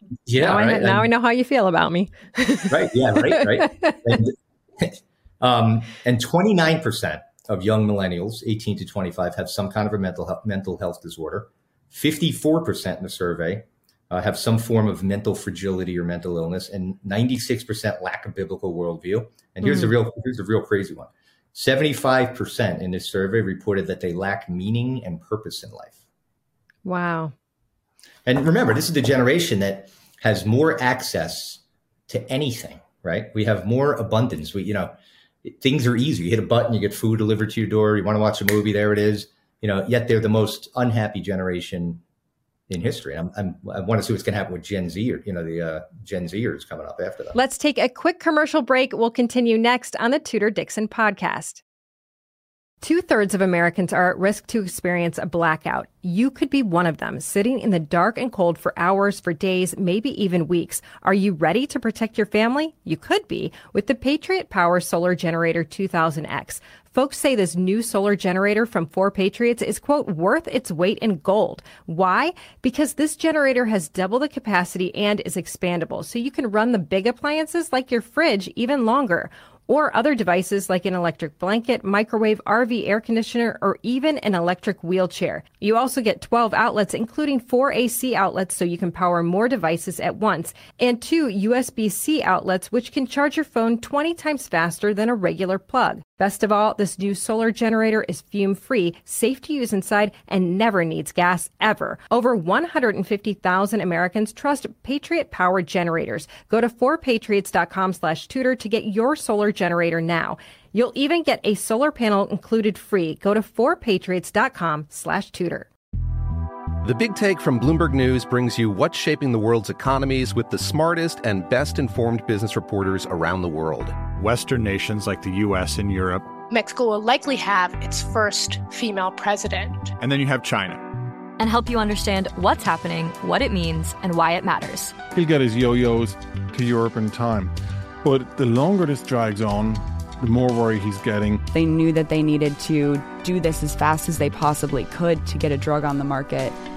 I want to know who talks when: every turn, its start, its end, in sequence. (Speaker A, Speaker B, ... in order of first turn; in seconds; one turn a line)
Speaker A: 0.3-1.1
Speaker B: 0.4-4.0
Speaker A: 2.7-26.0
Speaker B: 19.6-19.9
Speaker B: 26.9-27.3
Speaker A: 28.3-42.0
Speaker A: 42.7-47.4
Speaker B: 47.3-51.6
Speaker B: 52.8-115.7
Speaker C: 116.8-124.0
Speaker D: 124.1-126.3
Speaker E: 126.5-129.9
Speaker D: 130.0-130.8
Speaker F: 131.4-135.0
Speaker G: 135.1-141.5
Speaker H: 141.5-146.6